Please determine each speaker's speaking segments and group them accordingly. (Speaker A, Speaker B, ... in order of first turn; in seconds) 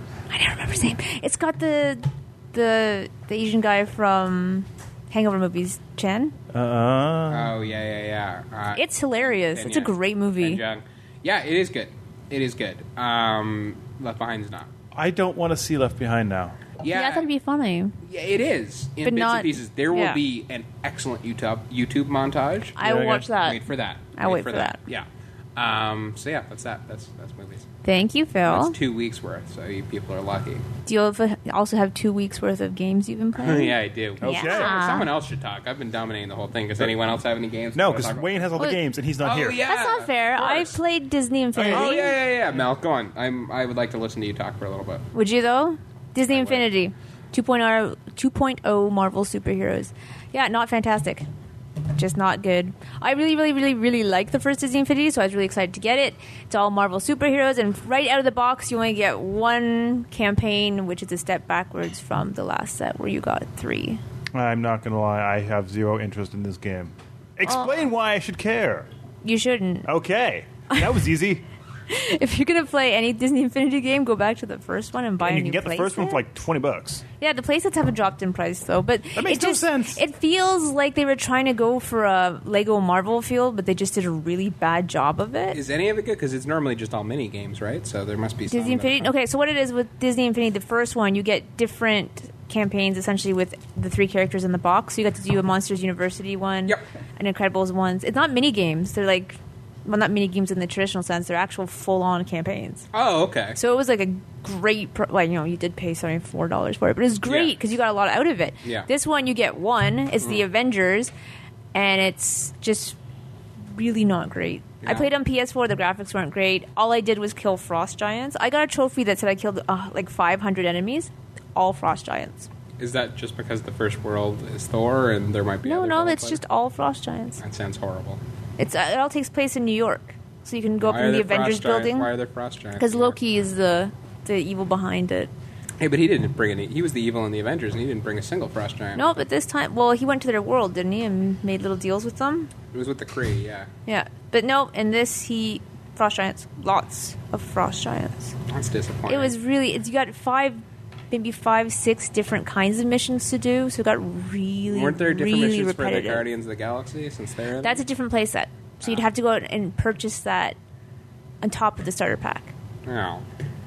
Speaker A: 0.3-6.4, 8.8-10.6, 16.9-18.0, 19.0-20.2, 22.8-23.6, 24.1-24.8, 27.8-28.8, 30.9-35.1, 39.6-42.1, 45.1-51.2, 51.9-64.0, 69.2-69.9, 71.9-76.2, 77.2-85.6, 88.5-102.9, 103.6-111.1, 111.7-113.0, 113.7-122.5, 125.7-127.4, 128.6-132.1, 132.8-135.3, 138.9-142.5, 143.9-148.4, 149.1-156.2, 157.6-160.6, 161.4-162.5
Speaker B: 6.5-7.6, 14.9-16.6, 22.8-23.3, 34.2-34.8, 37.8-39.6, 41.5-42.1, 64.3-68.9, 69.9-71.4, 75.2-77.0, 79.2-80.0
Speaker C: 7.3-14.7, 16.8-17.3, 18.0-22.8, 23.4-27.7, 28.5-30.7, 33.4-38.6, 39.2-40.8, 41.7-45.1, 46.3-46.7, 85.5-89.1, 102.9-103.6, 107.3-107.5, 108.6-108.9, 114.8-115.1, 122.8-126.4, 127.4-128.2, 130.8-133.2, 135.8-139.1, 142.7-143.7, 148.5-149.3, 154.7-157.8, 162.8-163.2